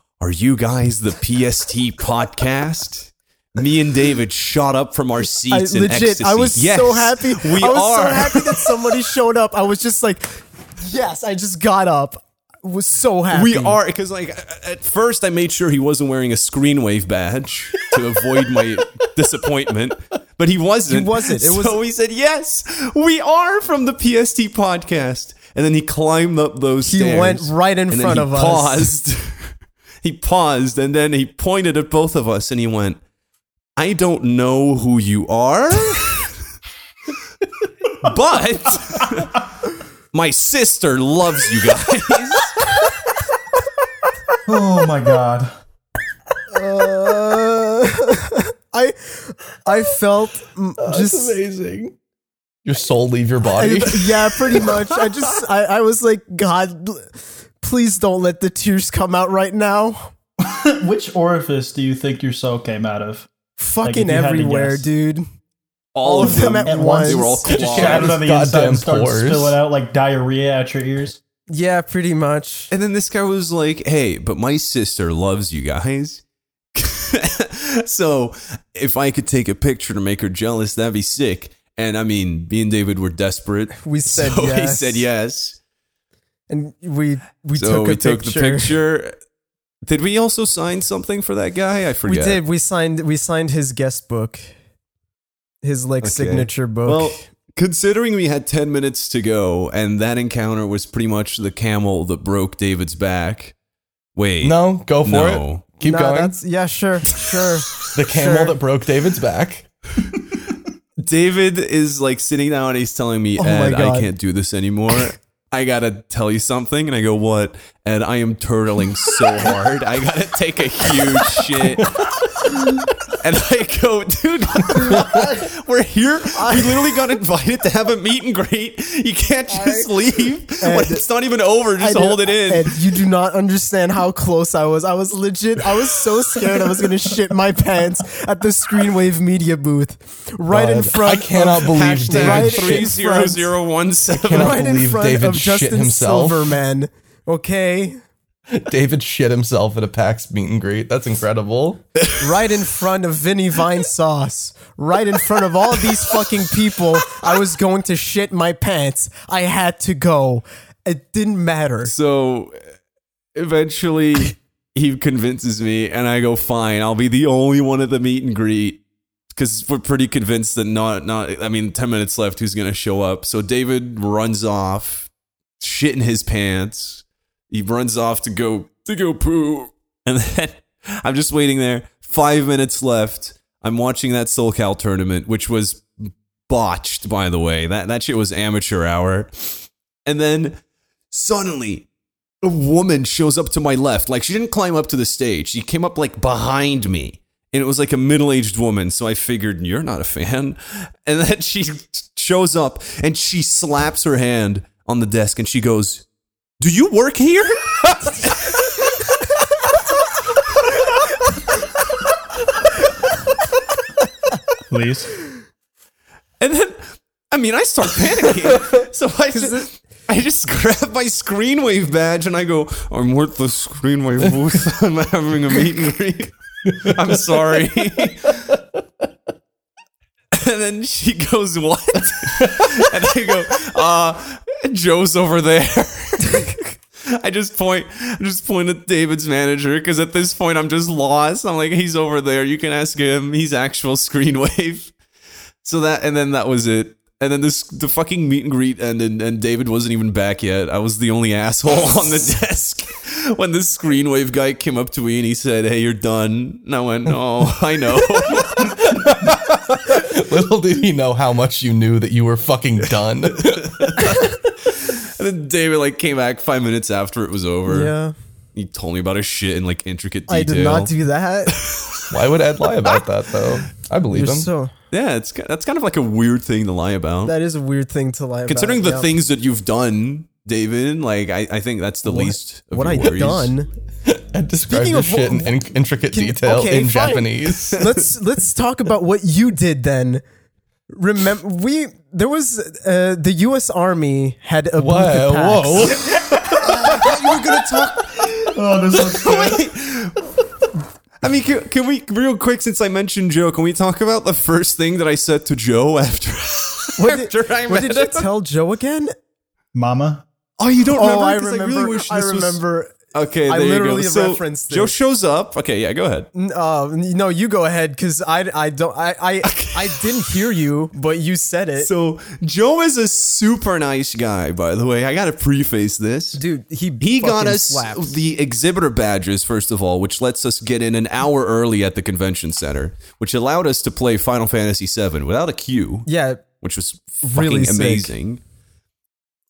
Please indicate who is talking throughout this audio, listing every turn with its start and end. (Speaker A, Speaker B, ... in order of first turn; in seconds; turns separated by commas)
Speaker A: 0.2-8.9, Speaker B: 5.5-13.8, Speaker A: 13.3-33.0, Speaker B: 20.9-21.8, Speaker B: 26.8-28.9, Speaker A: 33.8-36.3, Speaker A: 38.0-39.4, Speaker A: 40.1-42.6, Speaker C: 44.5-45.5, Speaker B: 46.5-51.4, Speaker D: 50.8-51.9, Speaker D: 52.6-54.8, Speaker B: 53.5-60.1, Speaker C: 60.4-63.3, Speaker B: 63.6-65.2, Speaker C: 63.8-64.9, Speaker A: 65.9-68.2, Speaker B: 66.0-67.5, Speaker C: 66.2-71.2, Speaker D: 67.5-69.6, Speaker B: 71.5-72.7, Speaker A: 72.7-76.2, Speaker A: 76.7-85.6, Speaker B: 83.8-85.0, Speaker B: 86.5-88.8, Speaker A: 87.5-89.1, Speaker A: 89.8-92.4, Speaker B: 92.0-94.5, Speaker B: 95.6-97.2, Speaker A: 96.0-103.5, Speaker A: 104.2-105.6, Speaker D: 104.4-106.3, Speaker B: 105.8-108.6, Speaker D: 107.9-109.7, Speaker A: 111.0-122.2, Speaker B: 113.4-114.1, Speaker A: 123.0-132.8, Speaker B: 124.7-125.4, Speaker B: 126.3-126.9, Speaker B: 129.5-129.9, Speaker B: 130.6-131.0, Speaker B: 131.8-143.5, Speaker D: 140.5-142.9, Speaker A: 141.5-144.6, Speaker D: 144.2-146.5, Speaker B: 144.2-148.0, Speaker D: 148.5-151.8, Speaker B: 152.2-161.9, Speaker A: 161.8-162.6, Speaker A: 163.3-168.8, Speaker A: 169.3-190.6, Speaker A: 191.1-191.9, Speaker A: 192.4-206.0, Speaker A: 206.6-208.6, Speaker C: 214.7-215.1, Speaker A: 216.4-228.5, Speaker A: 230.3-244.9, Speaker D: 232.4-232.7, Speaker A: 245.6-259.1, Speaker D: 258.5-264.0, Speaker A: 263.3-267.9, Speaker B: 267.6-268.1, Speaker A: 268.5-270.9, Speaker B: 270.3-271.6, Speaker A: 271.5-272.1, Speaker D: 272.1-274.5, Speaker B: 274.1-274.7, Speaker A: 274.9-277.3, Speaker B: 277.2-279.1, Speaker A: 278.5-283.5, Speaker B: 282.0-283.7, Speaker D: 284.0-287.8, Speaker B: 284.7-285.5, Speaker B: 286.1-290.2, Speaker A: 287.7-288.0, Speaker B: 290.9-296.0, Speaker D: 294.8-296.1, Speaker A: 295.9-300.3, Speaker C: 296.6-297.1, Speaker C: 298.4-299.6, Speaker A: 301.2-308.3, Speaker B: 307.0-309.1, Speaker C: 309.7-310.2, Speaker A: 310.6-312.6, Speaker B: 310.9-312.9, Speaker A: 313.1-316.3, Speaker B: 313.5-314.9, Speaker B: 316.3-321.9, Speaker A: 319.4-320.2, Speaker A: 321.8-326.4, Speaker B: 326.3-328.2, Speaker A: 327.0-336.1, Speaker B: 336.1-336.4, Speaker A: 336.6-338.4, Speaker B: 337.2-338.1